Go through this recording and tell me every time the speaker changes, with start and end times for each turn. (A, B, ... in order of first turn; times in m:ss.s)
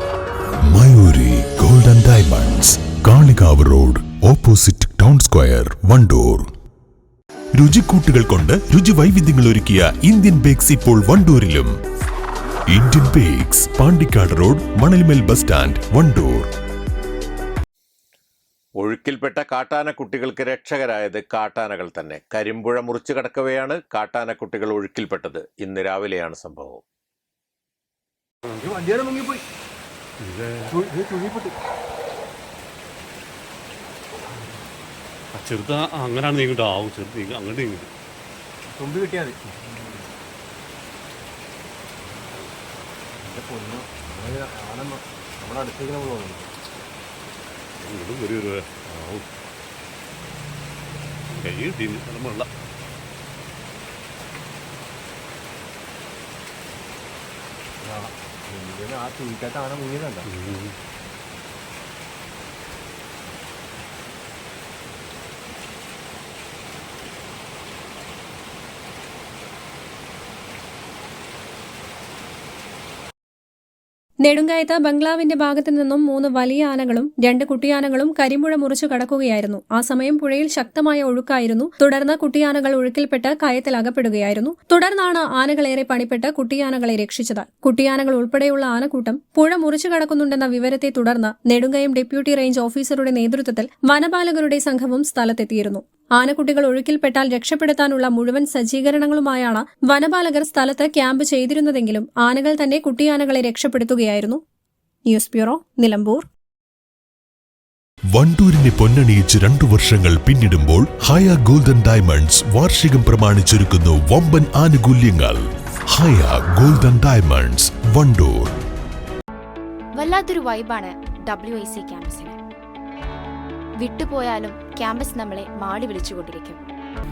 0:00.7-0:06.5 A
0:07.5-0:11.7 A
0:12.7-0:16.5 A
0:18.8-0:26.8 B
0:28.7-0:29.4 C
0:30.2-0:30.7 D
0:30.7-0:31.6 C
0:35.4-0:37.9 D
0:38.7-0:39.5 C
0:43.2-0:46.5 C
0:47.8-0:49.3 D
0:51.3-0:52.5 D
0:57.8-1:00.3 C
1:00.3-1:00.8 D
1:14.2-1:44.4 E
1:45.1-1:46.2 E
1:48.1-1:58.5 A
2:00.0-2:02.4 F
2:03.8-2:06.6 F